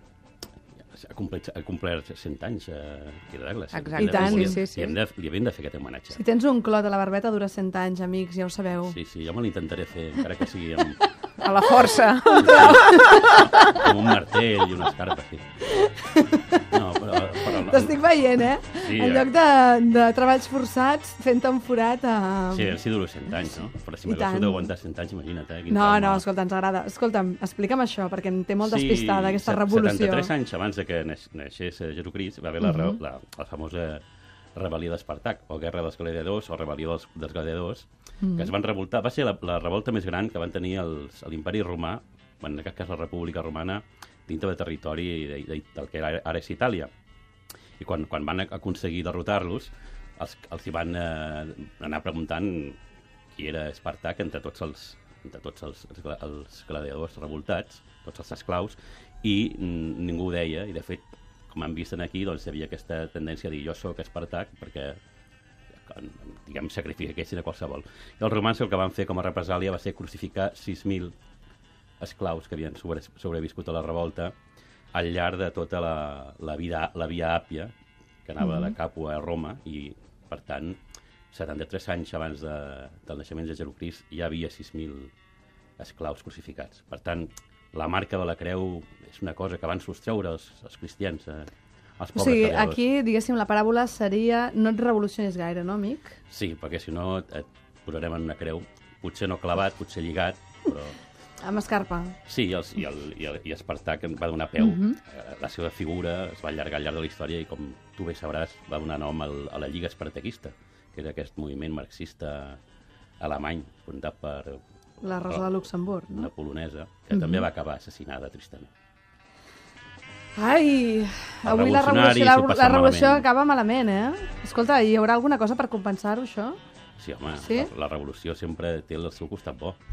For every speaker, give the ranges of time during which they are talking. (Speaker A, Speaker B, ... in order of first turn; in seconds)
Speaker A: 0.8-6.2, 8.9-11.0, 12.4-15.4, 16.7-18.0, 18.7-19.3, 22.5-26.2, 28.6-34.0, 34.6-46.9, 47.8-52.8, 53.4-65.0, 65.8-71.1, 72.0-74.3, 74.9-77.7, 78.2-80.8, 81.3-85.1, 85.8-92.8, 96.3-101.0, 102.3-112.6, 113.2-118.7, 121.4-123.3, 127.0-129.8
Speaker B: 3.7-5.0, 11.4-13.8
Speaker C: 4.0-4.6, 6.2-9.0, 11.0-11.3, 12.2-13.4, 15.7-16.7, 17.5-22.8, 24.1-24.7, 25.7-30.3, 32.6-33.0, 38.2-38.5, 78.4-78.8, 92.2-96.2, 101.4-102.2, 104.6-105.0, 115.0-116.3, 117.1-117.4, 120.4-126.6, 127.4-127.7